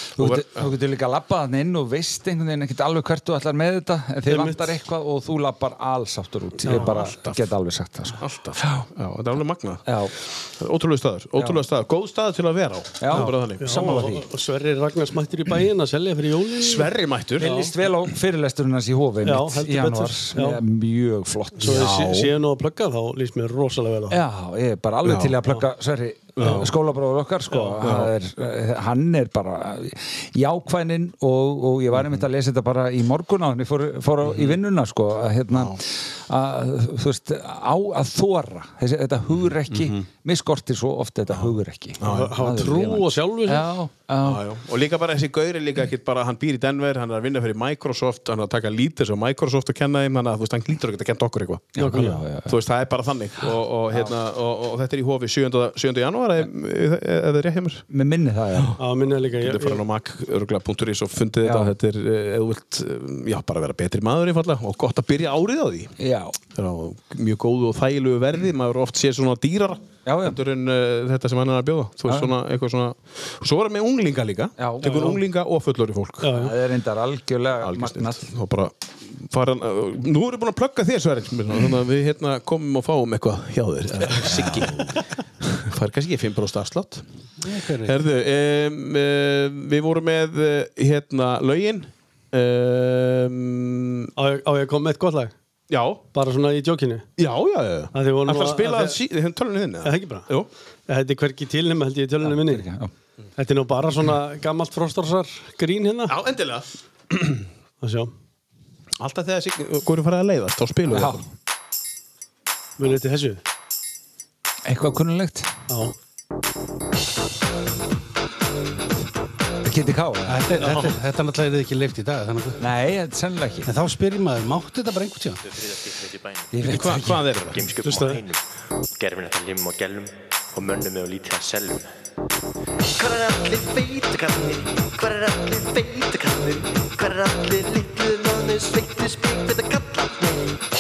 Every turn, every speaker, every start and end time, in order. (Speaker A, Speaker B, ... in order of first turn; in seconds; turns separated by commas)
Speaker A: 0.2-8.8, Speaker B: 0.2-0.7, Speaker C: 4.3-4.7, Speaker C: 6.6-6.9, Speaker B: 6.7-7.4, Speaker B: 8.2-14.1, Speaker A: 9.9-10.1, Speaker A: 11.4-11.6, Speaker A: 13.0-14.3, Speaker C: 13.1-17.7, Speaker B: 16.6-17.6, Speaker A: 17.4-21.9, Speaker C: 19.2-20.6, Speaker C: 21.6-24.2, Speaker B: 21.6-22.3, Speaker A: 24.1-44.4, Speaker B: 25.0-25.4, Speaker B: 26.4-26.7, Speaker B: 27.8-28.1, Speaker B: 31.9-32.2, Speaker B: 34.2-34.6, Speaker B: 35.5-35.8, Speaker B: 39.7-40.0, Speaker B: 41.3-42.3, Speaker C: 42.0-43.7, Speaker B: 44.2-57.9, Speaker A: 51.8-52.6, Speaker C: 51.8-52.2, Speaker A: 57.9-58.8, Speaker C: 58.8-59.8, Speaker B: 59.4-66.0, Speaker A: 61.4-61.7, Speaker A: 66.0-66.4, Speaker B: 66.5-76.3, Speaker A: 70.0-70.4, Speaker A: 74.6-75.2, Speaker C: 76.2-76.5, Speaker A: 76.3-78.2, Speaker B: 77.6-87.0, Speaker A: 84.3-84.7, Speaker D: 87.4-88.0, Speaker B: 87.8-94.1, Speaker C: 94.2-95.3, Speaker B: 95.7-96.0, Speaker C: 96.1-97.1, Speaker B: 97.2-100.5, Speaker C: 97.9-99.0, Speaker C: 99.8-100.4, Speaker C: 100.9-102.7, Speaker A: 102.2-102.9, Speaker C: 103.4-106.1, Speaker B: 106.1-107.5, Speaker C: 107.8-108.1, Speaker B: 109.0-111.2, Speaker A: 110.9-111.2, Speaker C: 112.8-113.4, Speaker A: 114.6-115.5, Speaker C: 115.7-115.9, Speaker A: 119.6-120.5, Speaker D: 120.3-122.6, Speaker A: 122.6-123.7, Speaker D: 123.7-125.4, Speaker E: 125.5-126.7, Speaker A: 126.5-127.4, Speaker B: 126.6-128.1, Speaker E: 127.5-128.4, Speaker C: 127.9-128.2, Speaker E: 128.9-131.9, Speaker E: 132.9-140.6